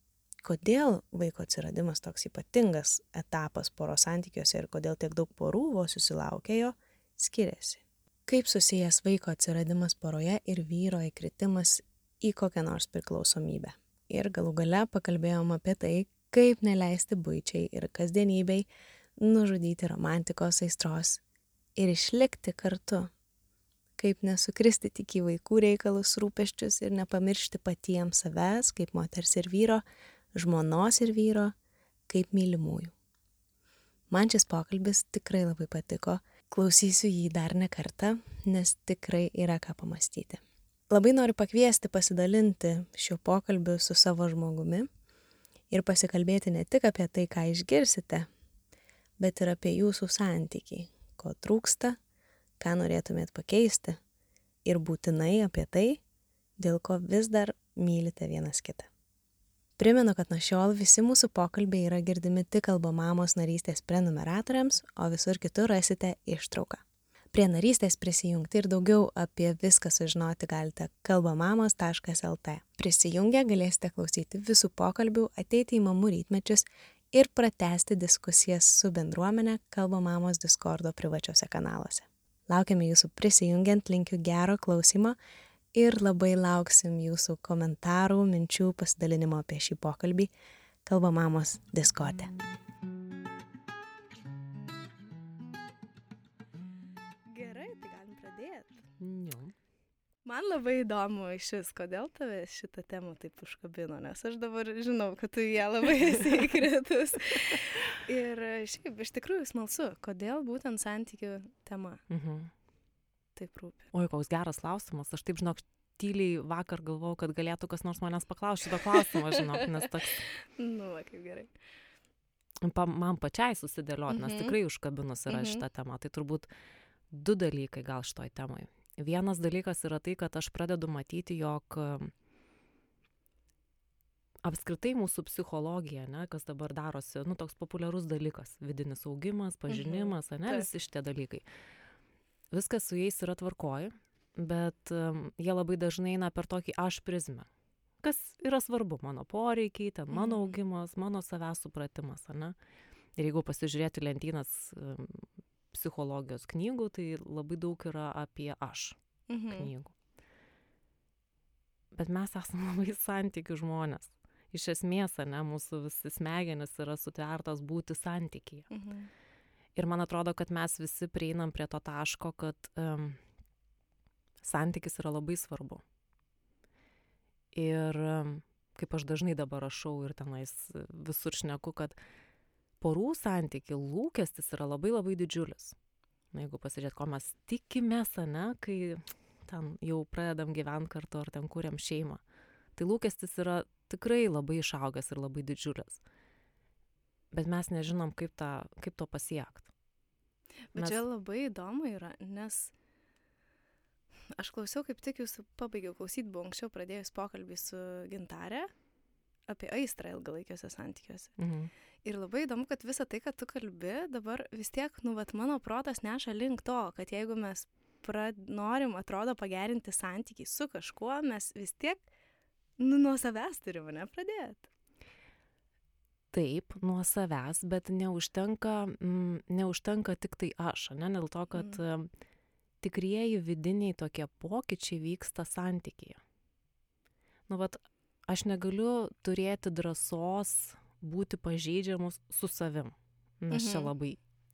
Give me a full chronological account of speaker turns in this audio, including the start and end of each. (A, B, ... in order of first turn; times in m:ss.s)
0:00.4-0:21.2 A
0:21.8-0:23.1 A
0:24.0-0:29.8 A
0:30.3-0:31.5 A
0:32.1-0:32.9 A
0:34.1-0:44.9 A
0:45.7-0:48.3 A
0:49.2-0:52.0 A
0:52.6-0:54.0 A
0:54.6-0:56.0 A
0:56.6-0:58.9 A
0:59.8-1:06.8 A
1:07.3-1:25.2 A
1:25.7-1:30.3 A
1:30.8-1:32.3 A
1:37.3-1:38.8 B
1:39.0-1:39.5 C
1:40.2-1:52.0 B
1:52.1-1:52.5 C
1:53.3-1:53.9 B
1:53.9-2:00.2 C
2:00.6-2:01.5 B
2:02.6-2:06.5 C
2:04.1-2:04.6 B
2:05.3-2:05.6 B
2:07.1-2:12.1 C
2:14.4-2:21.4 C
2:19.7-2:20.7 B
2:22.5-2:27.5 C
2:28.0-2:32.6 C
2:30.1-2:30.6 B
2:33.2-2:39.0 C
2:39.3-2:39.7 B
2:39.5-2:39.9 C
2:41.9-2:48.7 C
2:48.7-2:49.1 B
2:49.7-2:53.2 C
2:54.4-2:55.8 C
2:57.5-3:02.0 C
3:02.8-3:05.8 C
3:06.3-3:12.2 C
3:12.8-3:16.0 C
3:17.3-3:19.7 C
3:20.7-3:22.7 B
3:24.3-3:28.7 B
3:29.5-3:31.3 B
3:31.4-3:31.7 C
3:32.0-3:42.1 B
3:42.8-3:44.7 B
3:46.3-3:52.1 C
3:51.5-3:51.8 B
3:52.8-3:56.2 C
3:57.5-4:04.2 C
4:03.5-4:03.9 B